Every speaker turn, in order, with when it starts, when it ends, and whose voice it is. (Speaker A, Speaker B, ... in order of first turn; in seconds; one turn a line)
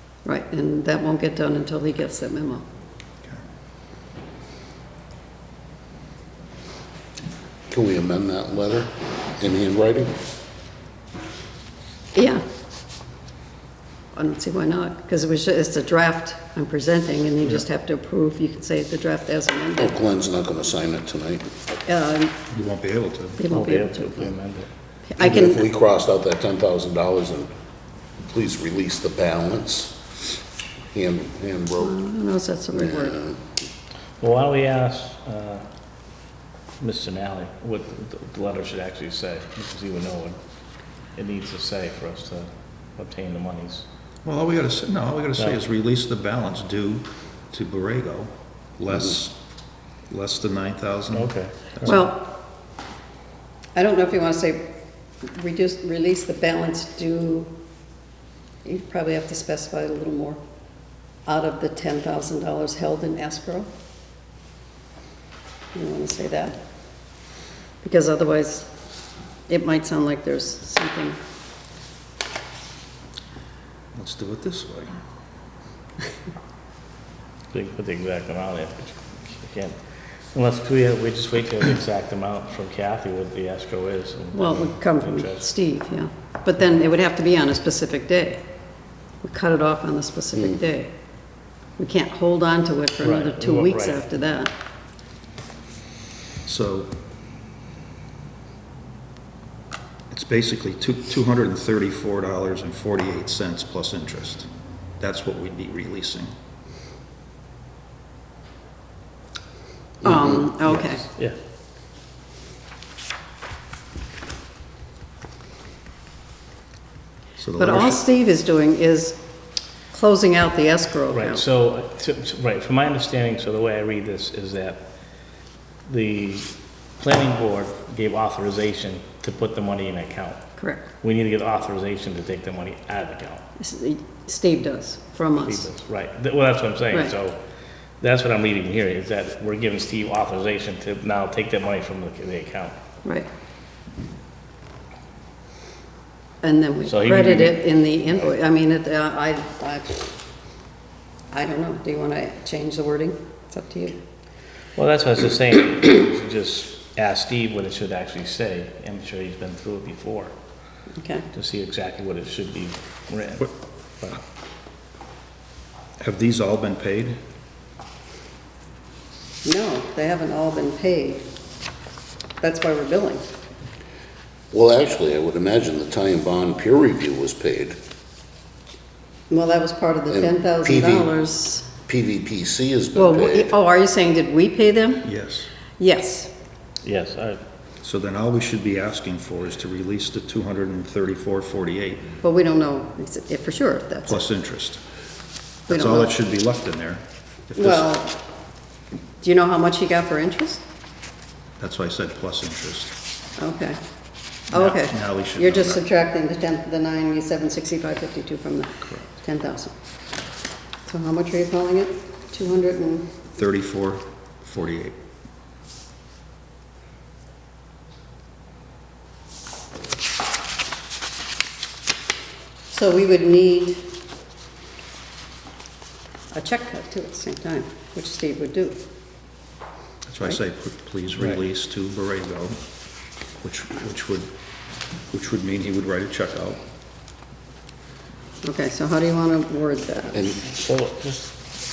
Speaker A: 0.2-2.6
Speaker B: 7.7-10.1
Speaker A: 12.1-12.4
Speaker A: 14.1-20.0
Speaker B: 19.8-21.5
Speaker A: 21.8-22.3
Speaker C: 22.5-23.4
Speaker A: 23.4-24.3
Speaker D: 23.5-24.7
Speaker A: 25.1-25.6
Speaker B: 25.2-27.5
Speaker B: 28.3-30.0
Speaker B: 30.9-32.0
Speaker A: 31.8-33.2
Speaker B: 32.7-33.4
Speaker D: 34.2-35.6
Speaker D: 36.8-40.4
Speaker D: 41.1-43.8
Speaker C: 44.2-49.4
Speaker C: 50.1-52.1
Speaker D: 51.1-51.7
Speaker A: 51.8-52.4
Speaker A: 53.7-57.5
Speaker A: 58.6-60.4
Speaker A: 61.2-63.7
Speaker A: 65.7-66.6
Speaker A: 67.8-68.7
Speaker A: 69.5-71.2
Speaker C: 73.9-75.0
Speaker D: 77.5-79.8
Speaker D: 80.3-85.5
Speaker A: 84.3-88.4
Speaker A: 89.2-90.9
Speaker A: 91.8-94.5
Speaker D: 93.0-94.0
Speaker C: 96.4-96.9
Speaker C: 100.1-104.5
Speaker C: 105.0-106.3
Speaker A: 110.0-111.0
Speaker D: 110.7-111.3
Speaker C: 117.4-118.0
Speaker A: 117.6-119.2
Speaker A: 119.9-121.4
Speaker D: 121.1-124.8
Speaker D: 125.8-130.4
Speaker A: 130.6-130.8
Speaker D: 131.0-133.4
Speaker A: 133.6-135.7
Speaker D: 135.4-137.4
Speaker D: 138.0-142.7
Speaker A: 146.4-150.1
Speaker D: 146.8-147.6
Speaker A: 151.3-154.0
Speaker D: 154.8-160.3
Speaker A: 161.0-161.3
Speaker D: 161.3-164.2
Speaker C: 166.0-167.2
Speaker A: 169.4-171.3
Speaker A: 172.4-173.2
Speaker B: 174.5-177.8
Speaker A: 179.3-181.7
Speaker B: 180.1-181.1
Speaker B: 181.8-183.5
Speaker A: 182.9-185.1
Speaker C: 185.0-185.5
Speaker A: 185.8-186.3
Speaker D: 186.8-187.4
Speaker C: 187.8-192.1
Speaker A: 192.2-194.2
Speaker C: 194.0-194.8
Speaker C: 195.7-197.9
Speaker A: 195.7-196.1
Speaker A: 197.6-198.2
Speaker A: 199.2-200.6
Speaker C: 201.6-202.9
Speaker A: 203.4-203.8
Speaker A: 204.5-209.7
Speaker C: 204.5-205.8
Speaker A: 210.8-213.2
Speaker C: 213.3-214.9
Speaker A: 222.7-223.9
Speaker A: 226.3-228.8
Speaker C: 230.1-232.6
Speaker C: 233.4-234.3
Speaker C: 235.1-236.6
Speaker A: 238.4-240.3
Speaker B: 240.2-240.5
Speaker D: 240.6-241.4